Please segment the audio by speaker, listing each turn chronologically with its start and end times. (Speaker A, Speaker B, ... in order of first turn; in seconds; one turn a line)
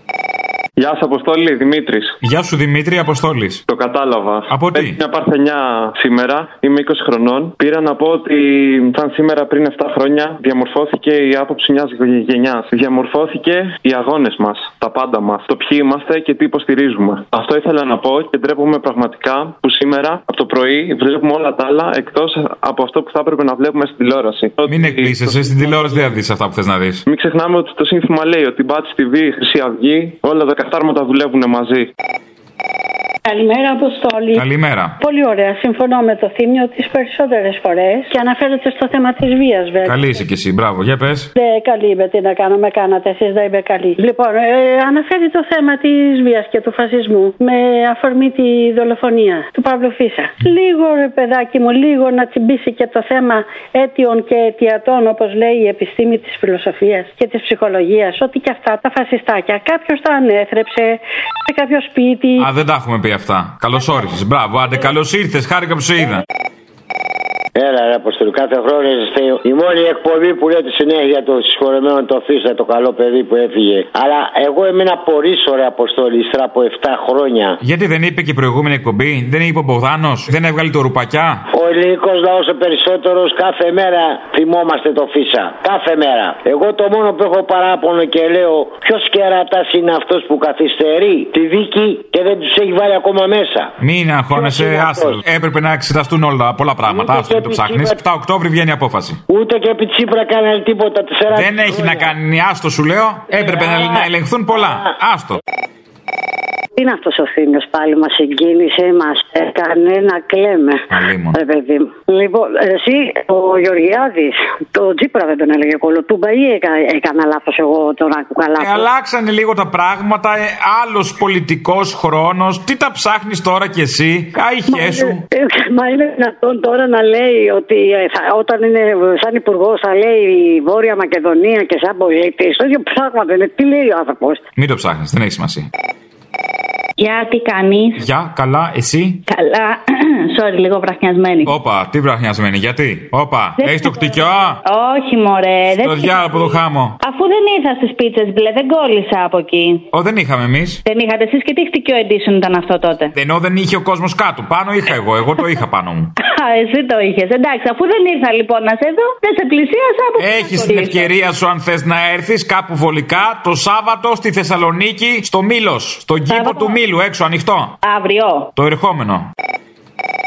Speaker A: 0.8-2.1
Speaker B: 2.2-3.6
Speaker A: 3.7-26.2
Speaker B: 4.5-5.0
Speaker B: 24.7-27.0
Speaker A: 27.1-31.9
Speaker C: 33.3-34.4
Speaker B: 34.4-35.0
Speaker C: 35.0-40.1
Speaker B: 39.8-41.3
Speaker C: 41.4-62.5
Speaker B: 62.4-66.2
Speaker D: 67.5-77.6
Speaker B: 77.6-81.4
Speaker D: 81.5-93.7
Speaker B: 93.8-99.2
Speaker D: 94.3-95.2
Speaker D: 96.9-98.0
Speaker D: 99.3-102.1
Speaker B: 101.3-105.4
Speaker D: 103.6-104.0
Speaker E: 106.8-118.9
Speaker B: 110.9-111.4
Speaker B: 118.6-125.2
Speaker E: 124.7-134.4
Speaker B: 134.6-135.7
Speaker F: 137.0-137.9
Speaker B: 138.0-139.2
Speaker F: 139.3-139.8
Speaker F: 140.3-141.4
Speaker B: 141.4-144.6
Speaker F: 144.7-146.1
Speaker B: 145.8-147.0
Speaker F: 147.0-149.8
Speaker B: 149.9-150.8
Speaker F: 150.9-153.1
Speaker B: 153.1-156.1
Speaker F: 156.4-161.0
Speaker B: 160.2-167.8
Speaker F: 167.8-168.4
Speaker B: 168.6-169.3